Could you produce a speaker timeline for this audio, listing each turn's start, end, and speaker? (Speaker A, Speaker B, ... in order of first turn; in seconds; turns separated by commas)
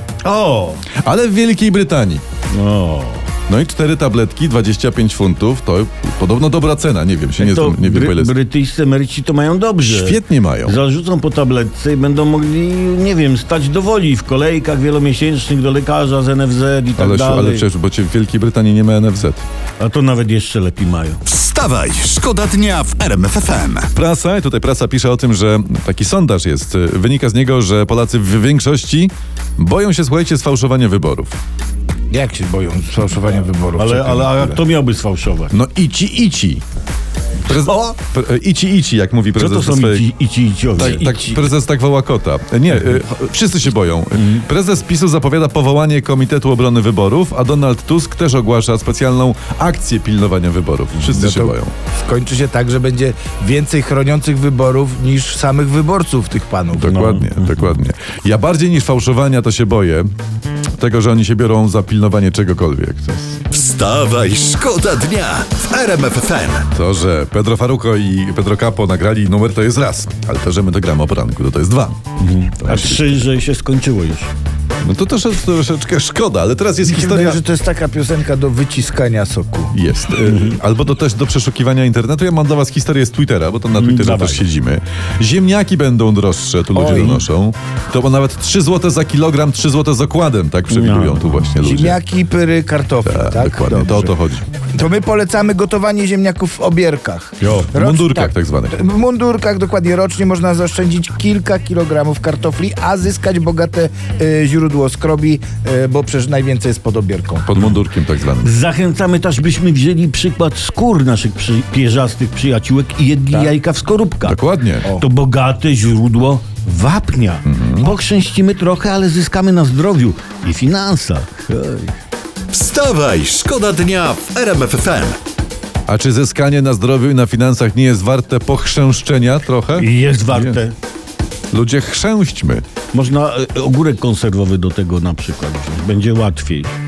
Speaker A: 0.2-0.8, Speaker B: 1.0-2.2, Speaker A: 2.5-3.3, Speaker B: 3.5-8.3, Speaker A: 7.4-17.7, Speaker B: 9.8-10.8, Speaker B: 17.0-19.4, Speaker A: 19.8-21.2, Speaker C: 21.2-23.9, Speaker B: 23.9-31.4, Speaker D: 32.1-34.6, Speaker A: 33.8-35.5, Speaker B: 35.5-36.6, Speaker B: 37.5-40.1, Speaker A: 37.5-38.0, Speaker A: 39.3-41.5, Speaker B: 40.8-51.7, Speaker A: 44.1-44.4, Speaker D: 51.1-56.9, Speaker B: 56.8-60.1, Speaker A: 56.8-57.8, Speaker B: 60.8-63.4, Speaker C: 63.5-66.7, Speaker B: 66.7-72.0, Speaker A: 72.2-74.3, Speaker B: 72.6-73.1, Speaker B: 74.8-77.4, Speaker D: 76.8-79.7, Speaker B: 79.7-92.0, Speaker A: 80.2-80.6, Speaker A: 83.7-84.5, Speaker D: 86.7-87.2, Speaker A: 90.7-91.5, Speaker D: 91.6-94.1, Speaker B: 93.0-94.4, Speaker D: 94.8-107.5, Speaker A: 97.4-97.8, Speaker B: 97.7-98.8, Speaker B: 107.5-108.5, Speaker A: 107.6-107.8, Speaker A: 108.4-122.0, Speaker B: 114.2-114.8, Speaker B: 117.4-117.9, Speaker C: 122.5-125.2, Speaker B: 125.9-130.6, Speaker A: 129.7-130.7, Speaker B: 131.5-132.6, Speaker A: 132.9-136.7